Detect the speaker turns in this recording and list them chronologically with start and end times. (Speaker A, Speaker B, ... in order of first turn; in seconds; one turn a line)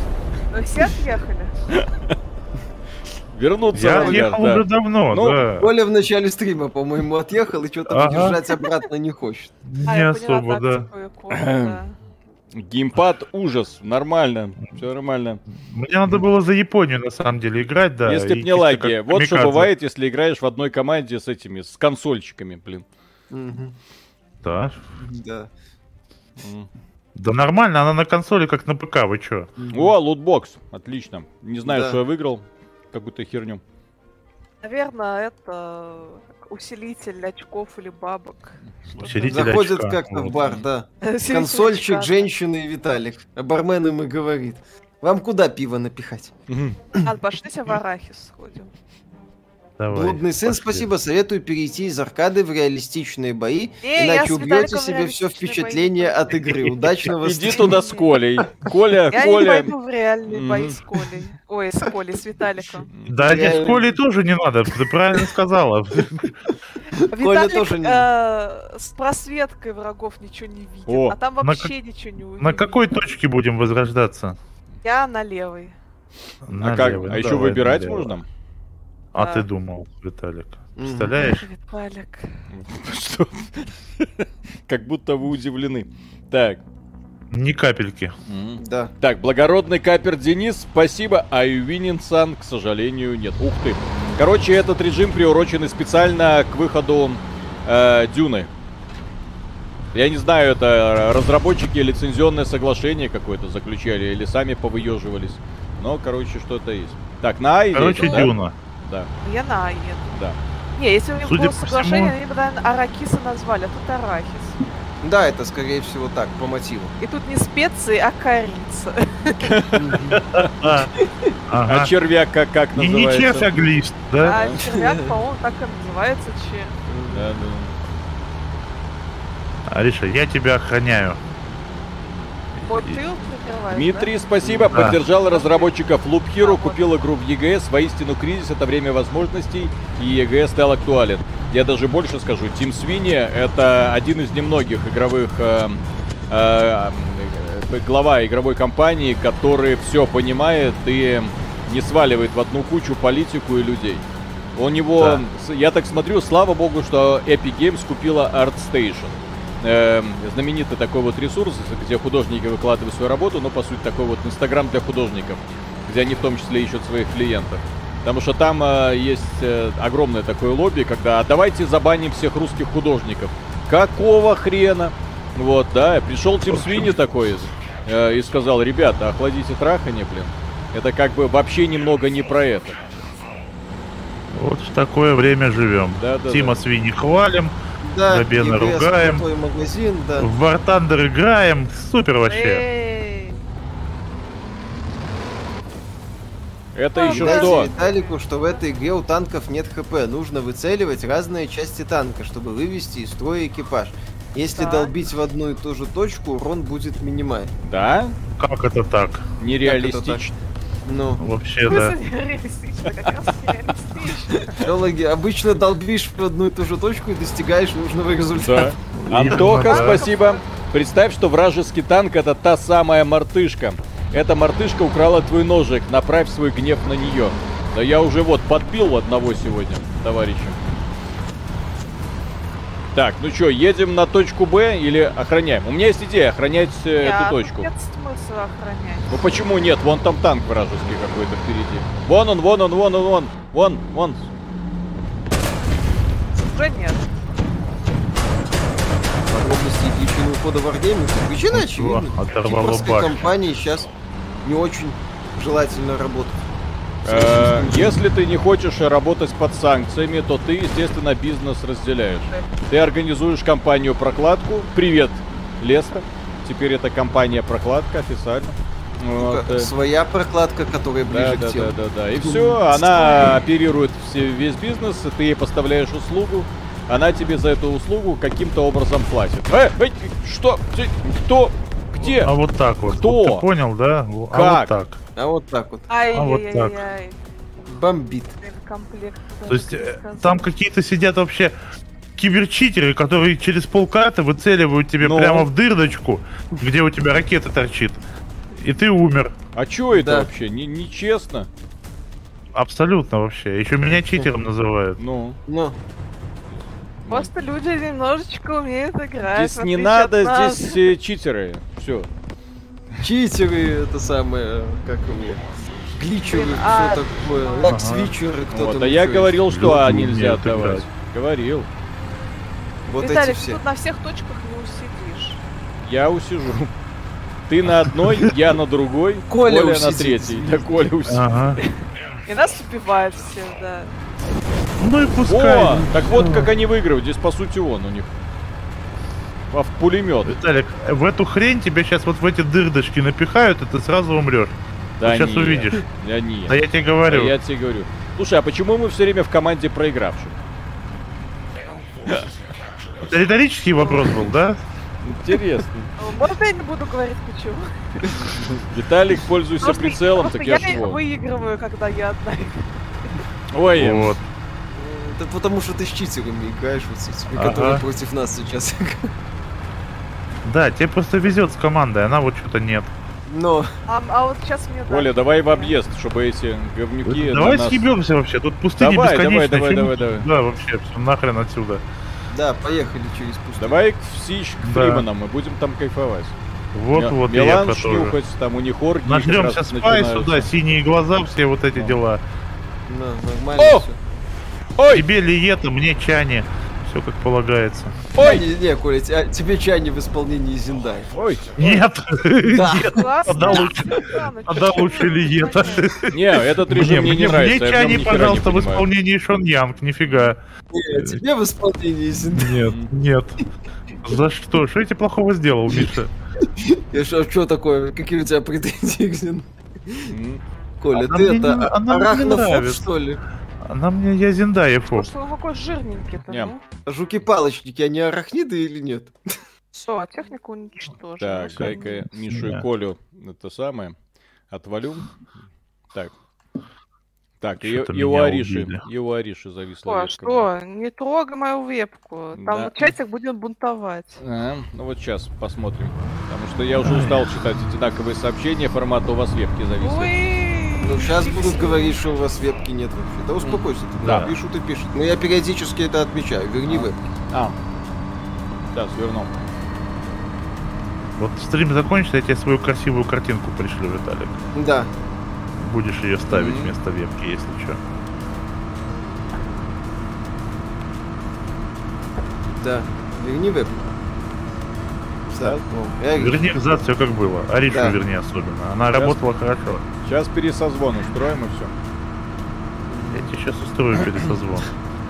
Speaker A: 0.5-1.5
Speaker B: 1.7-2.1
Speaker B: 3.3-5.4
Speaker C: 3.7-5.7
Speaker D: 5.6-9.5
Speaker C: 7.9-8.4
Speaker C: 9.7-10.9
Speaker A: 9.8-11.9
Speaker B: 11.3-11.8
Speaker B: 12.5-15.4
Speaker C: 15.5-19.7
Speaker B: 18.0-22.9
Speaker D: 23.3-23.8
Speaker C: 24.4-24.8
Speaker D: 25.0-25.5
Speaker B: 26.4-26.7
Speaker C: 27.1-29.5
Speaker D: 29.6-29.9
Speaker B: 29.7-33.6
Speaker D: 31.6-32.0
Speaker A: 34.6-39.4
Speaker B: 38.9-39.3
Speaker C: 39.0-40.5
Speaker D: 39.3-46.3
Speaker A: 41.0-42.3
Speaker B: 46.5-46.8
Speaker A: 47.0-48.7
Speaker C: 49.8-50.9
Speaker D: 49.9-57.8
Speaker A: 53.8-56.4
Speaker B: 57.1-59.7
Speaker A: 57.5-58.2
Speaker A: 59.1-62.9
Speaker B: 60.3-60.8
Speaker B: 62.9-63.2
Speaker C: 63.1-66.3
Speaker D: 63.2-63.9
Speaker A: 66.9-72.8
Speaker D: 67.1-68.0
Speaker B: 70.9-71.2
Speaker C: 71.4-71.7
Speaker C: 72.4-74.4
Speaker A: 74.8-75.7
Speaker C: 76.4-78.2
Speaker B: 76.6-78.2
Speaker C: 79.1-81.5
Speaker A: 79.1-79.5
Speaker D: 80.8-81.2
Speaker A: 81.2-82.4
Speaker B: 82.5-86.6
Speaker C: 87.3-88.1
Speaker B: 88.2-98.5
Speaker D: 88.6-88.9
Speaker B: 99.9-109.1
Speaker C: 107.7-108.5
Speaker A: 108.0-108.3
Speaker A: 109.2-110.2
Speaker B: 110.1-110.4
Speaker A: 110.8-114.9
Speaker C: 111.2-112.1
Speaker D: 115.0-116.9
Speaker A: 117.0-119.5
Speaker B: 119.4-120.4
Speaker D: 119.8-120.2
Speaker C: 120.2-120.9
Speaker C: 121.5-121.9
Speaker B: 121.6-123.6
Speaker C: 122.8-124.4
Speaker A: 124.2-126.7
Speaker B: 124.2-124.6
Speaker D: 124.6-125.1
Speaker D: 126.9-127.3
Speaker B: 127.1-127.7
Speaker C: 129.7-131.2
Speaker C: 132.6-133.0
Speaker A: 132.7-134.1
Speaker B: 133.7-154.0
Speaker D: 134.4-134.7
Speaker C: 134.7-135.0
Speaker A: 135.1-135.7
Speaker A: 136.4-136.9
Speaker B: 154.6-182.8
Speaker C: 155.0-155.2
Speaker C: 176.5-176.9
Speaker C: 184.3-187.5
Speaker B: 186.0-186.6
Speaker D: 187.8-190.3
Speaker C: 188.1-189.2
Speaker C: 190.2-192.6
Speaker A: 192.2-193.4
Speaker B: 196.7-197.7
Speaker A: 196.9-198.6
Speaker D: 197.0-207.5
Speaker A: 204.5-204.9
Speaker B: 207.6-208.2
Speaker C: 208.4-209.3
Speaker B: 209.4-210.3
Speaker D: 209.6-210.2
Speaker D: 210.8-211.2
Speaker C: 211.2-212.0
Speaker A: 211.7-214.6
Speaker D: 214.5-218.7
Speaker B: 218.3-230.6
Speaker C: 218.9-220.0
Speaker A: 219.3-220.4
Speaker B: 232.9-237.7
Speaker A: 237.0-239.3
Speaker B: 239.1-244.3
Speaker A: 246.3-247.1
Speaker D: 249.3-253.9
Speaker C: 251.5-253.4
Speaker D: 254.4-256.4
Speaker B: 257.0-269.7
Speaker D: 257.0-257.9
Speaker D: 269.2-273.3
Speaker B: 271.1-282.3
Speaker C: 282.0-285.0
Speaker B: 282.9-283.4
Speaker B: 284.3-284.8
Speaker D: 285.1-285.9
Speaker A: 285.9-287.2
Speaker C: 286.1-286.8
Speaker D: 287.7-288.4
Speaker A: 288.4-290.5
Speaker C: 289.5-291.5
Speaker C: 292.2-299.3
Speaker B: 295.0-295.5
Speaker B: 299.5-301.5
Speaker D: 299.9-300.3
Speaker C: 302.5-305.0
Speaker B: 305.0-305.4
Speaker D: 305.5-305.8
Speaker B: 307.0-307.3
Speaker A: 307.1-310.9
Speaker B: 309.3-312.1
Speaker D: 313.0-319.4
Speaker A: 316.2-317.8
Speaker C: 317.6-318.1
Speaker B: 318.5-321.7
Speaker C: 319.5-320.9
Speaker D: 322.9-323.6
Speaker A: 323.0-325.4
Speaker B: 325.8-326.7
Speaker B: 327.5-331.3
Speaker C: 327.9-328.3
Speaker D: 329.3-330.7
Speaker C: 331.1-331.6
Speaker A: 332.3-333.9
Speaker C: 334.8-336.5
Speaker B: 335.2-338.1
Speaker B: 339.5-340.4
Speaker C: 340.2-345.9
Speaker B: 345.0-350.4
Speaker C: 346.5-347.3
Speaker C: 353.0-354.6
Speaker A: 353.8-354.2
Speaker B: 355.0-355.9
Speaker A: 356.0-358.0
Speaker B: 358.2-361.0
Speaker A: 359.6-363.1
Speaker B: 363.5-364.2
Speaker C: 363.8-364.2
Speaker D: 364.7-369.1
Speaker C: 367.3-367.8
Speaker C: 370.4-372.9
Speaker D: 373.3-373.7
Speaker A: 373.9-375.7
Speaker B: 374.9-377.8
Speaker C: 377.1-381.8
Speaker B: 378.8-380.3
Speaker D: 382.3-383.8
Speaker B: 383.6-386.4
Speaker C: 384.6-385.1
Speaker C: 386.7-388.1
Speaker B: 386.9-390.5
Speaker C: 389.0-392.2
Speaker B: 391.7-392.0
Speaker D: 392.9-394.0
Speaker B: 393.6-393.9
Speaker B: 394.8-395.0
Speaker C: 394.9-398.0
Speaker B: 398.1-398.4
Speaker D: 398.2-401.1
Speaker B: 401.1-401.5
Speaker C: 401.6-410.4
Speaker D: 402.5-403.7
Speaker A: 402.9-405.9
Speaker B: 406.1-408.9
Speaker B: 410.1-410.3
Speaker D: 410.7-412.7
Speaker C: 410.9-411.2
Speaker C: 412.2-413.4
Speaker C: 414.0-416.1
Speaker D: 416.4-420.1
Speaker B: 420.1-420.4
Speaker D: 420.8-423.2
Speaker C: 420.9-422.8
Speaker C: 423.6-425.1
Speaker A: 424.9-426.6
Speaker B: 426.3-426.5
Speaker D: 426.9-429.1
Speaker A: 429.7-432.1
Speaker B: 431.2-433.9
Speaker C: 431.6-432.6
Speaker B: 434.5-435.1
Speaker B: 437.4-440.5
Speaker C: 437.6-438.8
Speaker A: 439.9-444.2
Speaker B: 442.3-442.9
Speaker B: 444.2-450.1
Speaker C: 446.8-447.4
Speaker A: 449.8-452.0
Speaker D: 450.8-457.0
Speaker B: 453.4-454.3
Speaker C: 454.0-454.3
Speaker B: 456.7-457.6
Speaker B: 458.7-459.3
Speaker C: 461.2-464.4
Speaker D: 464.5-464.9
Speaker C: 465.6-467.8
Speaker B: 466.3-466.8
Speaker D: 472.6-473.8
Speaker D: 475.3-476.4
Speaker C: 476.1-479.8
Speaker D: 477.7-478.0
Speaker B: 478.9-479.2
Speaker B: 480.0-481.7
Speaker D: 482.9-483.3
Speaker C: 483.1-484.7